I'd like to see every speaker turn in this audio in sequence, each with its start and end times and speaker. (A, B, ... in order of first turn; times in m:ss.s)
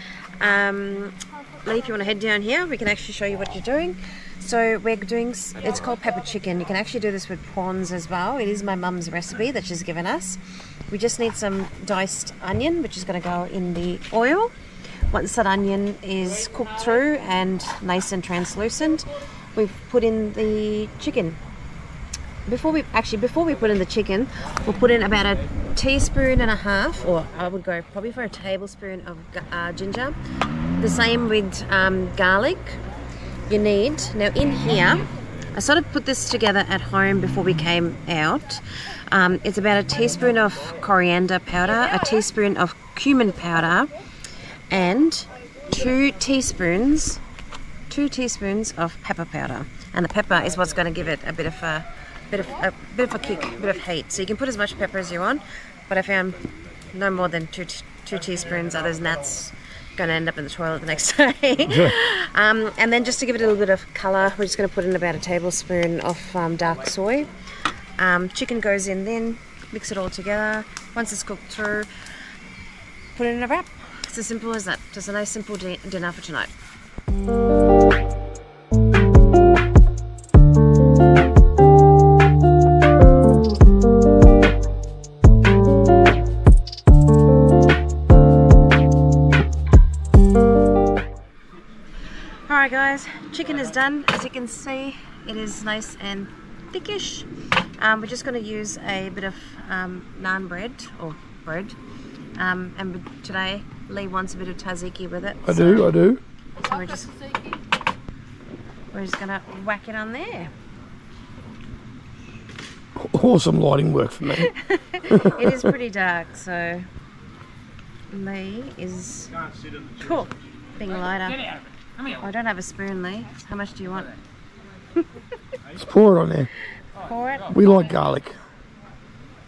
0:00.4-0:14.5 A
0:15.1-0:21.4 A
0:22.5-0:30.2 A
0:30.8-0:32.8 A
0:33.5-0:43.9 A
0:44.7-0:47.2 A
0:47.9-0:56.4 A
0:56.9-1:07.3 A
1:01.7-1:02.0 B
1:08.0-1:11.9 A
1:13.2-1:16.5 A
1:32.5-1:41.8 A
1:42.4-1:45.9 A
1:45.5-1:46.2 B
1:46.6-1:47.5 A
1:48.9-1:50.5 A
1:53.0-1:54.5 B
1:54.4-1:56.9 A
1:55.1-1:55.7 B
1:58.1-1:59.3 A
2:00.0-2:01.5 A
2:02.0-2:04.2 A
2:05.8-2:06.5 B
2:07.0-2:07.7 A
2:07.5-2:08.4 B